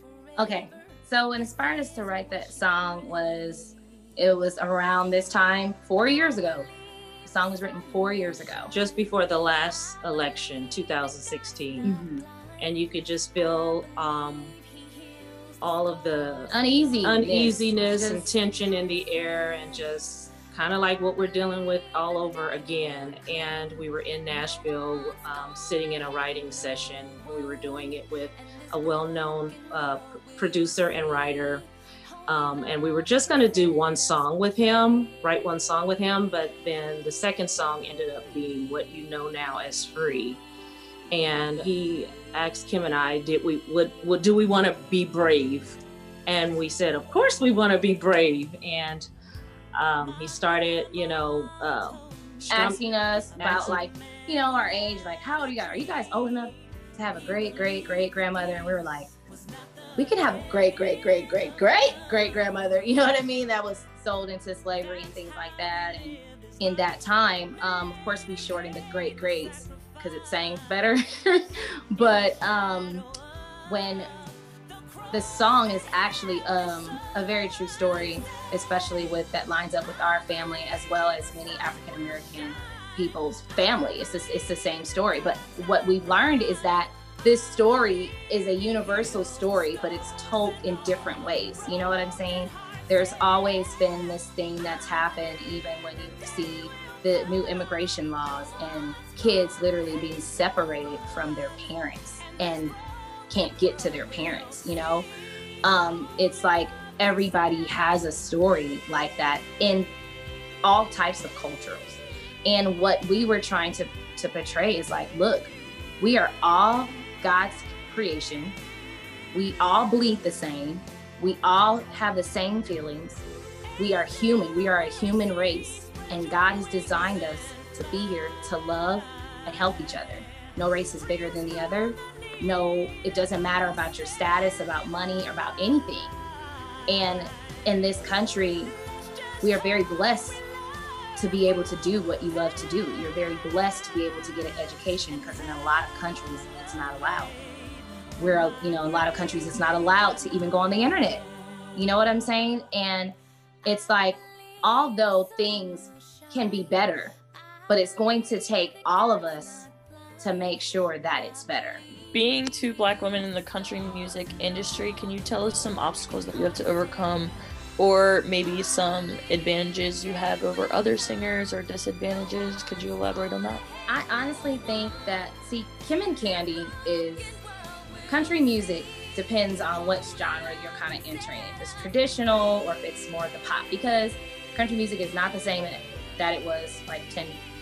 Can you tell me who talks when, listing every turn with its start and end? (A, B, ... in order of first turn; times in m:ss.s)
0:00.4-0:06.7 A
0:07.2-0:08.7 A
0:08.7-0:11.9 B
0:11.8-0:12.2 A
0:12.6-0:14.6 B
0:15.6-0:16.5 B
0:16.5-0:18.3 A
0:17.0-0:31.6 B
0:32.3-0:40.4 B
0:41.1-0:49.1 B
0:49.7-0:52.8 B
0:52.5-0:59.1 A
0:53.4-0:53.8 B
0:59.9-1:13.0 A
1:13.6-1:14.0 A
1:15.1-1:42.8 A
1:43.3-1:45.1 A
1:45.6-1:49.9 A
1:50.6-1:58.6 A
1:59.3-2:03.2 A
2:03.8-2:16.1 A
2:16.9-2:18.8 A
2:19.4-2:20.4 A
2:21.2-2:27.4 A
2:28.2-2:37.1 A
2:37.7-2:39.7 A
2:40.2-2:41.8 A
2:42.1-2:53.6 C
2:53.9-2:57.4 A
2:58.1-3:07.4 A